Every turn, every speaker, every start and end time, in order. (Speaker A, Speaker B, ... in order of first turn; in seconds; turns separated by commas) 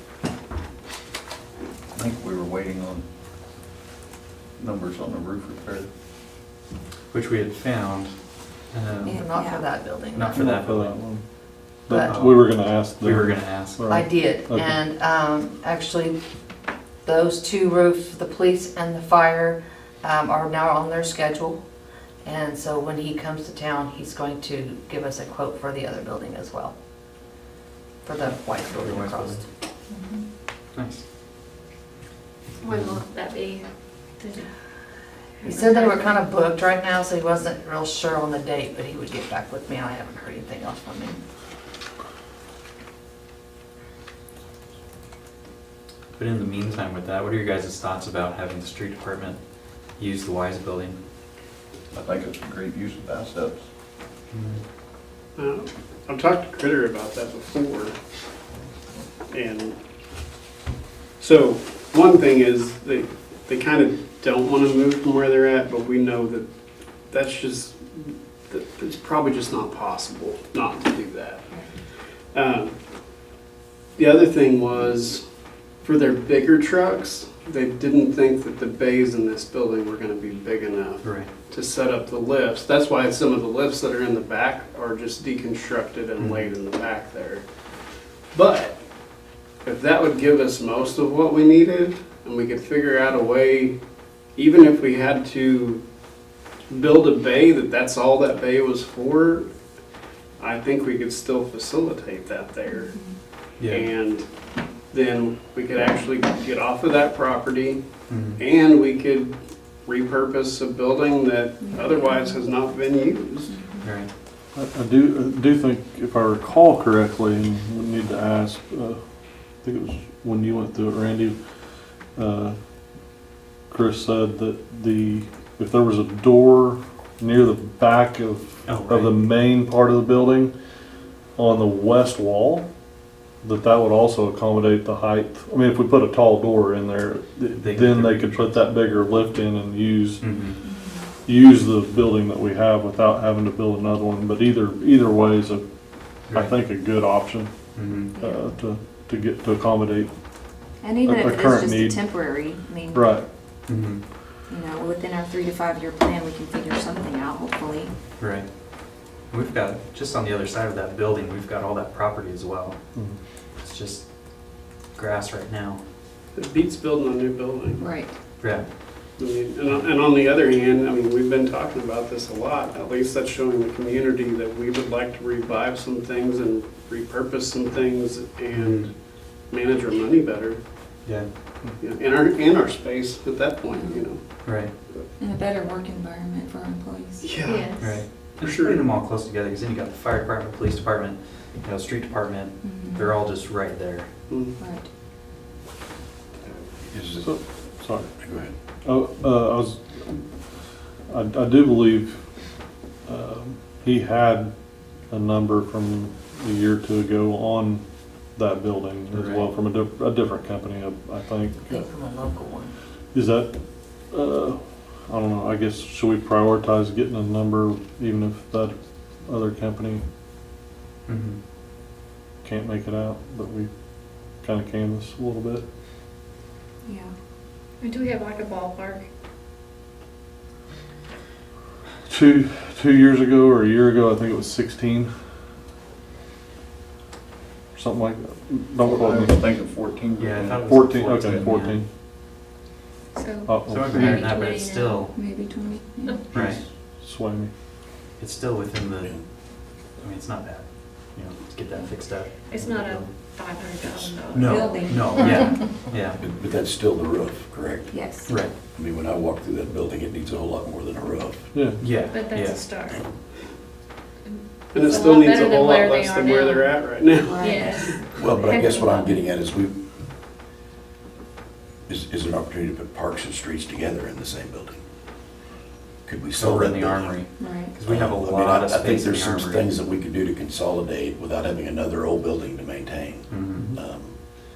Speaker A: 1.9-3.0, Speaker A: 4.6-5.9, Speaker B: 7.1-8.1, Speaker B: 8.7-9.2, Speaker C: 9.1-9.7, Speaker D: 9.1-10.4, Speaker B: 10.1-11.0, Speaker E: 10.3-11.2, Speaker E: 11.9-14.8, Speaker D: 11.9-12.2, Speaker B: 12.1-13.9, Speaker D: 13.9-16.2, Speaker D: 17.0-21.6, Speaker D: 22.2-26.7, Speaker D: 28.0-29.5, Speaker B: 28.5-29.4, Speaker B: 30.8-31.0, Speaker F: 32.6-33.6, Speaker B: 32.7-33.0, Speaker F: 34.2-34.5, Speaker F: 35.4-36.2, Speaker D: 35.4-41.2, Speaker B: 46.1-49.4, Speaker B: 50.0-51.0, Speaker A: 51.9-53.6, Speaker B: 54.3-54.6, Speaker G: 55.4-58.0, Speaker G: 59.3-59.8, Speaker G: 61.2-66.5, Speaker G: 67.1-71.5, Speaker G: 72.3-72.7, Speaker G: 74.0-75.2, Speaker G: 75.8-87.5, Speaker B: 81.0-81.3, Speaker B: 86.2-86.5, Speaker G: 88.3-88.8, Speaker G: 89.6-93.8, Speaker G: 94.3-95.8, Speaker G: 96.7-99.5, Speaker G: 100.4-102.9, Speaker C: 102.7-103.2, Speaker B: 103.6-103.9, Speaker G: 103.6-104.3, Speaker G: 104.9-107.8, Speaker B: 108.1-108.4, Speaker G: 108.4-113.6, Speaker C: 111.6-112.5, Speaker C: 113.5-113.9, Speaker B: 113.8-114.1, Speaker E: 114.5-119.0, Speaker E: 119.6-121.3, Speaker E: 122.2-122.6, Speaker E: 123.7-130.5, Speaker B: 128.7-129.2, Speaker E: 131.4-132.7, Speaker E: 133.4-140.2, Speaker B: 137.5-138.6, Speaker B: 140.2-140.6, Speaker C: 140.6-141.1, Speaker E: 141.3-145.6, Speaker B: 146.3-146.6, Speaker E: 146.3-147.5, Speaker B: 147.8-148.1, Speaker C: 148.2-148.5, Speaker E: 148.2-150.1, Speaker C: 150.8-153.2, Speaker E: 151.1-152.1, Speaker E: 152.9-153.2, Speaker B: 153.7-154.0, Speaker C: 154.5-157.9, Speaker B: 158.2-158.5, Speaker B: 159.3-162.8, Speaker B: 163.6-164.1, Speaker B: 164.9-165.8, Speaker G: 166.3-167.9, Speaker C: 167.8-168.1, Speaker B: 168.4-168.7, Speaker G: 169.2-178.9, Speaker B: 178.5-178.9, Speaker G: 179.5-180.6, Speaker G: 181.8-184.3, Speaker B: 184.4-184.7, Speaker C: 185.2-187.3, Speaker G: 187.2-187.7, Speaker F: 187.4-187.9, Speaker B: 187.8-194.1, Speaker G: 188.4-188.8, Speaker C: 192.6-193.1, Speaker C: 194.6-194.9, Speaker H: 196.8-197.3, Speaker E: 197.2-198.1, Speaker H: 198.2-198.5, Speaker E: 198.8-200.2, Speaker E: 201.1-202.2, Speaker E: 203.1-204.5, Speaker E: 205.1-207.8, Speaker E: 208.3-211.8, Speaker B: 209.1-209.5, Speaker D: 211.6-212.7, Speaker E: 213.1-213.5, Speaker E: 214.1-218.8, Speaker E: 219.3-220.0, Speaker B: 221.1-221.4, Speaker E: 222.4-223.7, Speaker E: 224.4-225.6, Speaker C: 226.9-227.1, Speaker F: 227.8-229.1, Speaker E: 232.1-235.1, Speaker E: 237.8-239.5, Speaker A: 238.9-240.6, Speaker B: 240.2-241.8, Speaker E: 240.6-241.9, Speaker F: 243.2-245.1, Speaker E: 243.5-244.4, Speaker B: 243.7-245.1, Speaker C: 245.1-246.2, Speaker B: 246.3-246.6, Speaker E: 246.3-247.5, Speaker B: 248.2-249.2, Speaker B: 250.0-253.1, Speaker F: 252.5-255.4, Speaker B: 253.9-256.2, Speaker C: 254.4-255.6, Speaker H: 256.1-258.1, Speaker C: 257.9-258.3, Speaker B: 258.3-258.5, Speaker H: 258.7-261.5, Speaker E: 261.5-261.8, Speaker B: 261.8-262.7, Speaker F: 262.1-263.0, Speaker F: 264.3-266.8, Speaker G: 264.7-268.2, Speaker H: 264.9-265.1, Speaker C: 267.2-268.0, Speaker F: 267.4-269.0, Speaker H: 268.1-269.8, Speaker H: 271.9-274.8, Speaker H: 276.1-277.2, Speaker B: 276.4-279.7, Speaker C: 277.4-277.7, Speaker H: 277.8-284.2, Speaker B: 283.3-283.7